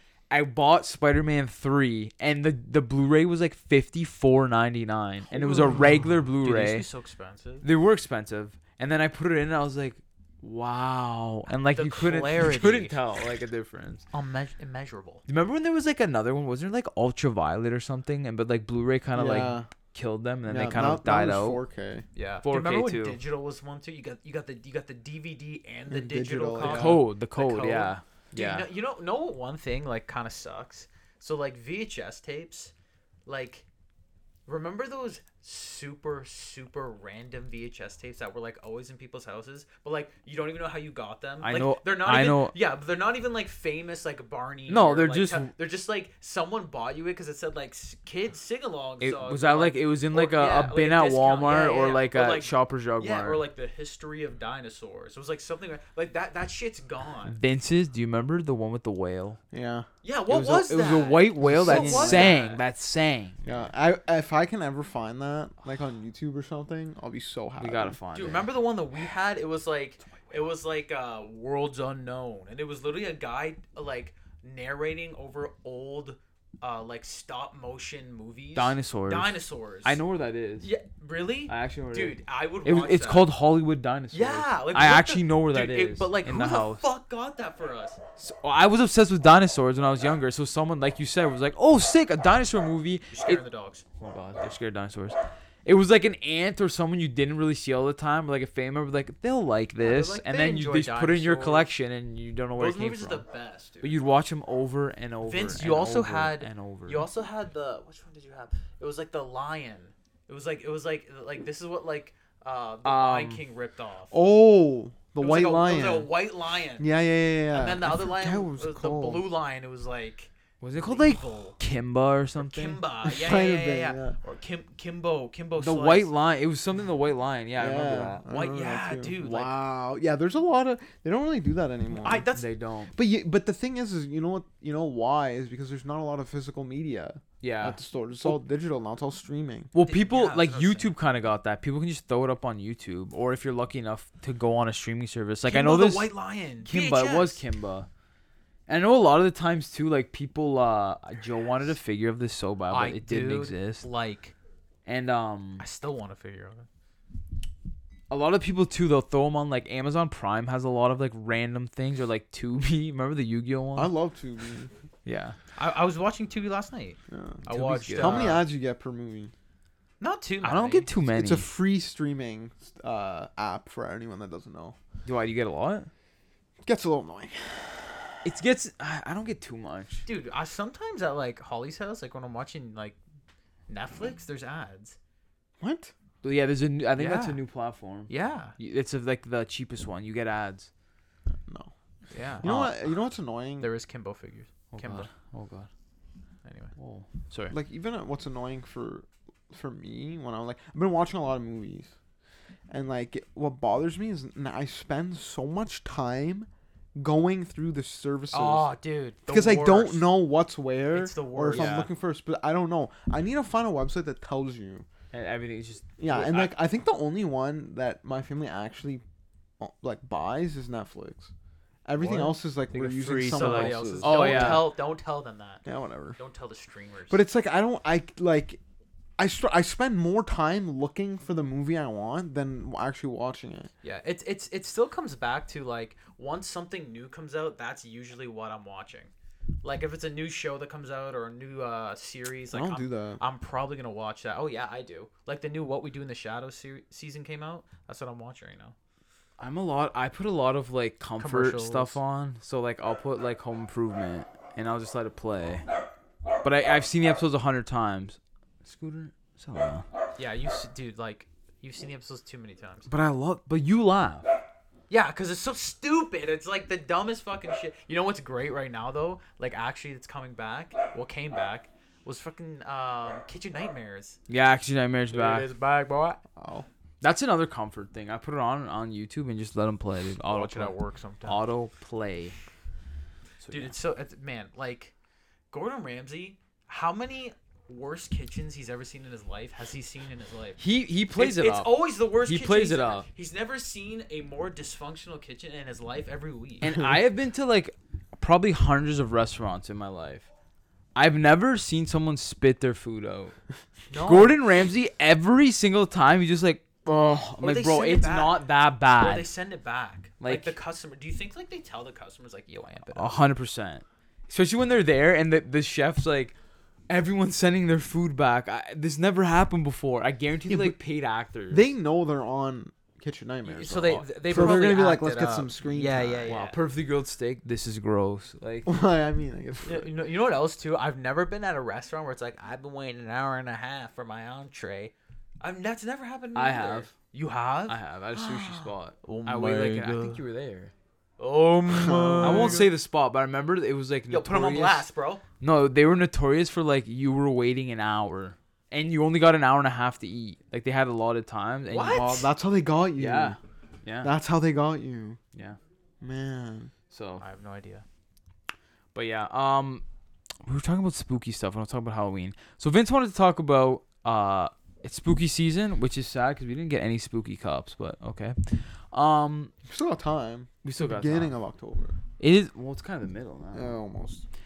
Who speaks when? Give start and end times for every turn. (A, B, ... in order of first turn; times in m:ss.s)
0:00.3-0:06.8 A
0:05.3-0:07.6 B
0:07.6-0:14.0 A
0:11.5-0:13.0 B
0:14.1-0:15.2 B
0:15.3-0:21.6 A
0:19.1-0:19.7 C
0:20.5-0:22.0 C
0:22.1-0:32.7 B
0:22.4-0:23.2 A
0:25.9-0:27.0 C
0:26.6-0:28.7 A
0:33.2-0:33.6 B
0:34.4-0:57.4 B
0:41.4-0:42.5 A
0:44.7-0:45.5 A
0:49.0-0:53.4 A
0:57.2-0:59.4 A
0:59.5-0:59.9 C
1:00.0-1:02.6 B
1:00.3-1:03.4 A
1:01.4-1:02.4 C
1:03.4-1:08.0 C
1:07.6-1:08.5 A
1:08.1-1:20.0 B
1:18.5-1:20.7 A
1:20.6-1:23.3 B
1:21.5-1:26.8 A
1:24.1-1:28.0 B
1:28.2-1:33.4 A
1:33.1-1:33.8 B
1:34.0-1:43.2 A
1:39.8-1:41.7 B
1:42.6-1:44.1 B
1:43.8-1:47.0 A
1:45.2-1:54.1 B
1:52.8-1:53.4 A
1:54.1-1:56.1 C
1:55.2-1:56.8 B
1:56.8-1:59.3 C
1:57.5-2:01.6 B
2:00.6-2:02.8 A
2:02.4-2:06.1 B
2:03.0-2:04.2 C
2:05.6-2:08.2 A
2:07.6-2:12.3 C
2:08.3-2:09.6 B
2:11.9-2:12.5 B
2:12.3-2:12.9 A
2:12.9-2:19.7 C
2:17.4-2:18.4 A
2:19.7-2:26.1 A
2:19.8-2:20.9 B
2:25.4-2:27.4 B
2:26.6-2:27.9 A
2:28.7-2:33.8 A
2:32.7-2:34.3 B
2:34.8-2:35.6 A
2:35.6-2:36.6 B
2:38.1-2:43.9 A
2:43.7-2:44.7 C
2:45.0-2:45.4 A
2:45.5-2:48.4 B
2:47.1-2:49.3 C
2:47.5-2:48.3 A
2:50.0-2:50.9 B
2:50.4-2:51.5 A
2:51.1-2:54.8 C
2:55.0-2:55.9 A
2:56.6-2:58.1 C
2:58.2-3:00.0 A
3:00.0-3:03.0 B
3:03.7-3:05.0 B
3:05.6-3:05.9 C
3:06.2-3:10.7 A
3:06.9-3:07.4 B
3:08.1-3:08.5 B
3:11.4-3:11.7 C
3:12.1-3:12.6 B
3:12.4-3:13.7 C
3:12.4-3:12.7 A
3:13.6-3:15.1 B
3:14.7-3:15.7 A
3:16.4-3:16.7 B
3:16.8-3:17.5 A
3:17.5-3:21.9 C
3:22.7-3:28.7 C
3:28.3-3:30.1 B
3:29.3-3:34.8 C
3:30.9-3:31.8 B
3:31.5-3:31.9 A
3:35.1-3:36.5 A
3:36.0-3:39.0 C
3:39.6-3:41.3 C
3:41.8-3:44.7 C
3:42.0-3:42.3 B
3:42.7-3:44.7 A
3:43.2-3:45.6 B
3:45.6-3:46.2 C
3:46.2-3:47.2 B
3:47.1-3:48.6 C
3:49.2-3:53.7 C
3:53.8-3:59.1 B
3:59.6-4:08.7 B
4:02.5-4:03.2 C
4:09.4-4:15.7 A
4:11.2-4:12.0 B
4:16.4-4:19.9 A
4:20.2-4:22.9 B
4:22.9-4:24.4 A
4:24.9-4:34.2 B
4:34.3-4:35.5 A
4:35.1-4:36.2 B
4:36.4-4:36.7 C
4:37.0-4:40.7 A
4:40.3-4:41.4 B
4:41.2-4:42.4 A
4:43.4-4:43.7 A
4:43.5-4:44.9 B
4:45.5-4:50.6 B
4:50.6-4:51.7 A
4:51.1-4:56.8 B
4:52.2-4:53.0 A
4:56.6-5:00.3 A
5:00.9-5:03.4 A
5:03.9-5:04.4 B
5:04.0-5:09.3 A
5:07.4-5:13.3 B
5:10.2-5:10.6 A
5:12.9-5:16.3 A
5:16.9-5:21.7 A
5:20.5-5:20.8 C
5:21.5-5:26.3 C
5:23.4-5:26.6 B
5:26.2-5:28.7 A
5:28.6-5:29.9 C
5:29.6-5:40.2 B
5:36.3-5:36.9 A
5:37.7-5:40.7 A
5:41.2-5:42.7 B
5:41.7-5:42.6 C
5:42.2-5:44.9 A
5:44.1-5:45.2 B
5:45.4-5:52.1 A
5:51.7-5:52.3 B
5:51.9-5:53.4 C
5:53.0-5:54.1 A
5:54.0-5:55.2 C
5:56.0-5:56.7 C
5:56.9-5:57.2 A
5:57.2-5:57.8 B
5:58.9-5:59.8 A
6:00.4-6:09.5 A
6:09.6-6:12.0 C
6:10.6-6:11.3 A
6:12.2-6:13.8 A
6:13.5-6:14.2 C